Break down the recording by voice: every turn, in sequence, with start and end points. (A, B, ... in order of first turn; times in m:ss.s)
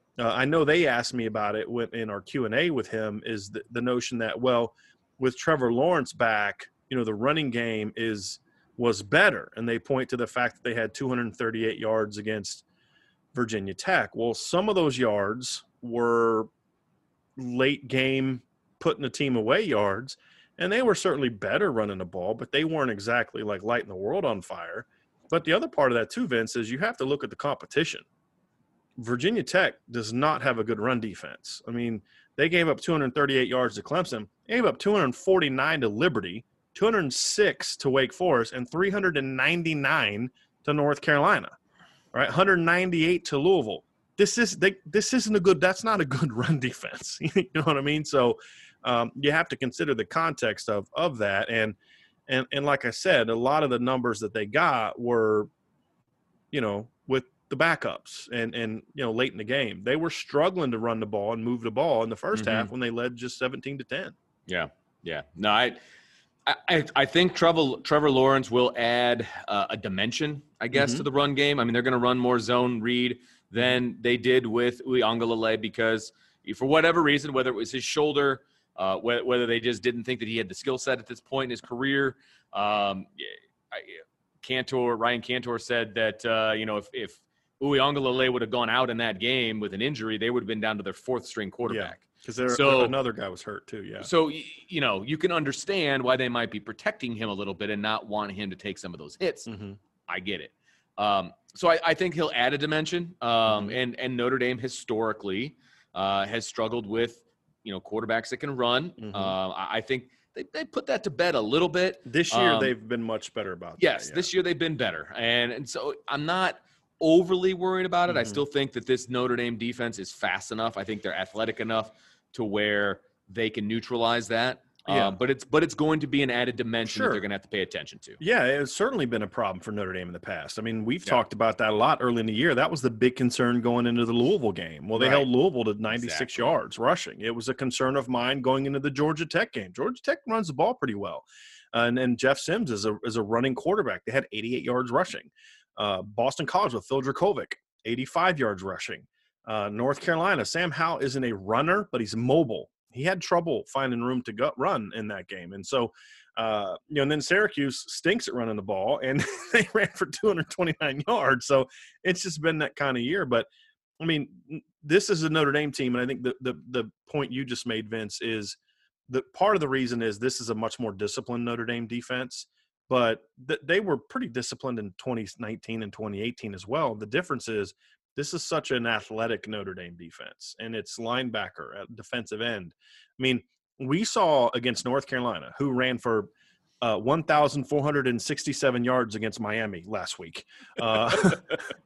0:00.2-0:12.6 A
0:13.3-0:16.5 A
0:17.4-0:28.0 A
0:29.0-0:41.5 A
0:42.1-0:51.8 A
0:52.3-0:55.5 A
0:56.5-1:04.1 A
1:02.3-1:02.7 B
1:04.5-1:05.8 B
1:06.5-1:33.0 B
1:10.7-1:11.0 A
1:31.7-1:34.1 A
1:34.0-1:39.5 B
1:39.5-1:39.8 A
1:40.1-1:52.7 B
1:43.5-1:43.8 A
1:49.0-1:49.4 A
1:52.0-1:54.3 A
1:53.8-2:08.2 B
1:58.1-1:58.4 A
2:04.9-2:05.2 A
2:06.9-2:07.2 A
2:08.2-2:43.5 A
2:15.0-2:15.3 B
2:15.9-2:16.6 B
2:44.0-2:48.6 A
2:49.1-3:06.3 A
3:06.8-3:11.7 A